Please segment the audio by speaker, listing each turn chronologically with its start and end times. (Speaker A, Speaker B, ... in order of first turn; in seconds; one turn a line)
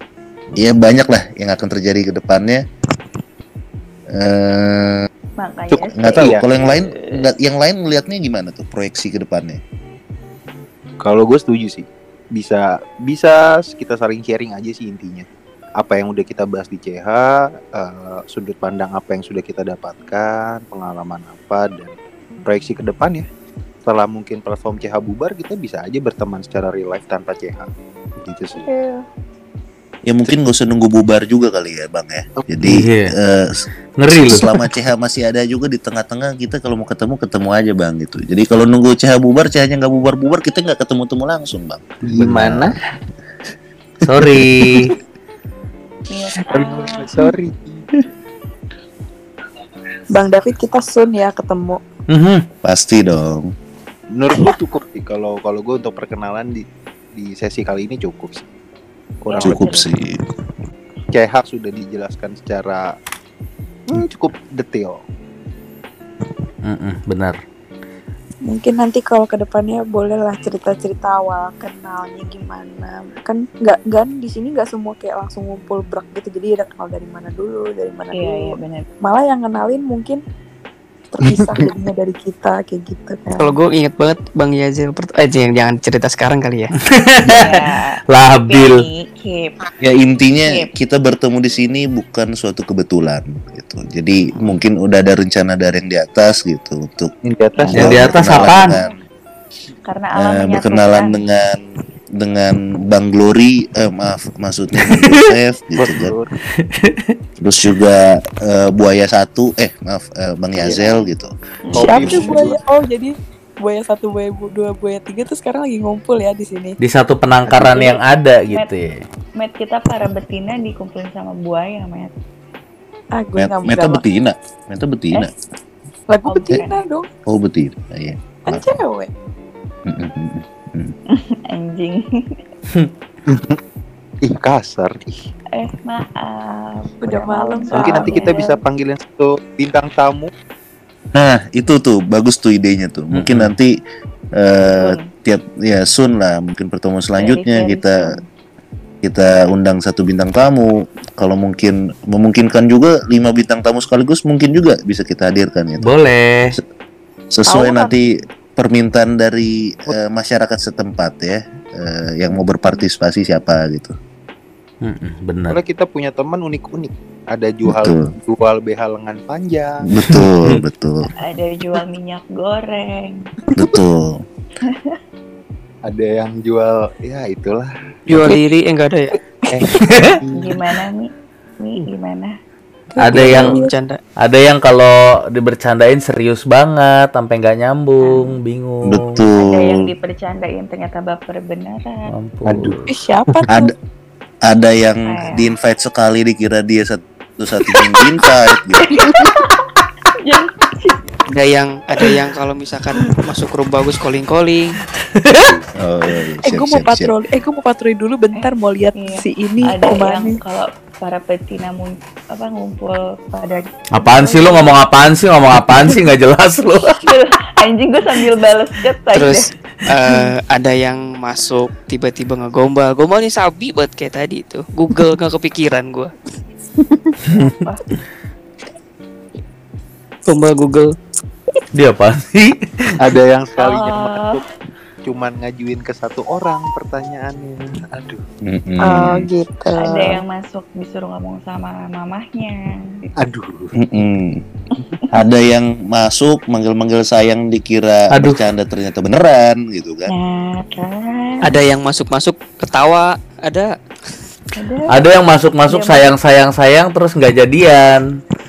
Speaker A: 0.6-2.6
Speaker A: 4.1-5.1
Speaker B: 5.4-7.3
Speaker C: 5.7-6.6
Speaker A: 5.9-9.6
Speaker C: 11.0-21.9
Speaker C: 22.4-23.3
Speaker C: 23.9-27.7
Speaker C: 28.2-28.7
Speaker B: 28.6-29.1
Speaker A: 30.1-33.5
Speaker D: 32.6-33.1
Speaker D: 34.0-34.7
Speaker A: 34.1-42.6
Speaker C: 42.0-42.8
Speaker D: 44.0-44.9
Speaker B: 46.1-47.2
Speaker C: 46.5-47.8
Speaker E: 50.1-51.8
Speaker D: 52.1-52.4
Speaker A: 52.6-53.5
Speaker C: 54.1-58.5
Speaker C: 59.2-59.8
Speaker B: 59.3-59.8
Speaker A: 59.4-60.1
Speaker C: 61.1-62.8
Speaker C: 63.9-65.0
Speaker D: 66.6-67.4
Speaker E: 68.5-80.2
Speaker B: 78.1-78.9
Speaker E: 81.1-83.5
Speaker C: 81.2-81.7
Speaker F: 83.3-86.7
Speaker D: 86.9-88.8
Speaker B: 87.3-89.5
Speaker A: 89.8-97.1
Speaker C: 97.2-98.1
Speaker B: 97.5-99.0
Speaker D: 97.7-98.8
Speaker A: 97.7-98.9
Speaker B: 99.8-101.1
Speaker A: 100.2-101.6
Speaker A: 102.2-106.1
Speaker D: 104.8-105.3
Speaker C: 105.8-106.3
Speaker D: 106.6-107.1
Speaker A: 107.4-111.3
Speaker C: 110.6-111.0
Speaker C: 111.7-112.6
Speaker E: 111.7-116.8
Speaker B: 111.8-112.5
Speaker A: 112.0-112.2
Speaker D: 116.8-119.0
Speaker B: 117.7-118.0
Speaker B: 119.4-122.1
Speaker E: 123.2-124.0
Speaker A: 123.4-125.3
Speaker E: 126.1-127.1
Speaker B: 126.2-126.8
Speaker A: 127.3-128.8
Speaker E: 128.5-129.1
Speaker A: 129.8-130.9
Speaker B: 131.1-132.4
Speaker C: 133.3-133.6
Speaker C: 134.2-135.2
Speaker B: 135.5-138.5
Speaker E: 137.0-138.5
Speaker C: 137.7-140.3
Speaker A: 141.1-143.7
Speaker D: 143.1-143.6
Speaker A: 144.4-148.1
Speaker B: 144.6-145.1
Speaker B: 147.2-148.2
Speaker A: 149.0-155.9
Speaker D: 155.8-156.6
Speaker A: 157.3-163.9
Speaker E: 157.4-157.9
Speaker D: 164.8-165.6
Speaker C: 165.5-169.8
Speaker A: 167.6-168.1
Speaker A: 169.8-171.1
Speaker D: 170.1-170.6
Speaker B: 171.2-173.3
Speaker A: 173.6-174.2
Speaker B: 174.6-175.0
Speaker C: 175.8-178.4
Speaker F: 178.1-179.2
Speaker C: 179.5-180.6
Speaker D: 179.8-180.2
Speaker B: 180.4-182.3
Speaker E: 182.9-183.7
Speaker D: 183.0-183.6
Speaker F: 183.0-184.0
Speaker D: 184.2-189.2
Speaker B: 188.0-188.4
Speaker A: 188.8-189.9
Speaker B: 189.3-192.1
Speaker D: 192.1-192.9
Speaker C: 192.5-192.8
Speaker E: 192.8-193.7
Speaker A: 194.4-198.9
Speaker B: 195.0-195.5
Speaker B: 198.8-199.6
Speaker B: 200.2-201.0
Speaker F: 201.3-204.7
Speaker D: 205.0-205.6
Speaker A: 205.8-207.1
Speaker E: 206.4-210.4
Speaker B: 208.4-214.8
Speaker D: 213.9-217.0
Speaker B: 216.9-219.5
Speaker F: 219.1-226.1
Speaker D: 227.3-227.5
Speaker B: 227.3-227.8
Speaker F: 230.3-230.9
Speaker D: 231.7-233.0
Speaker C: 233.0-234.4
Speaker B: 233.6-234.4
Speaker C: 235.0-238.2
Speaker A: 238.4-239.3
Speaker E: 238.8-240.2
Speaker B: 239.8-243.1
Speaker C: 243.2-243.7
Speaker A: 243.8-244.4
Speaker A: 245.1-250.1
Speaker D: 248.1-248.4
Speaker B: 250.1-251.4
Speaker F: 251.4-253.7
Speaker B: 254.6-255.0
Speaker D: 254.9-258.0
Speaker B: 255.7-256.2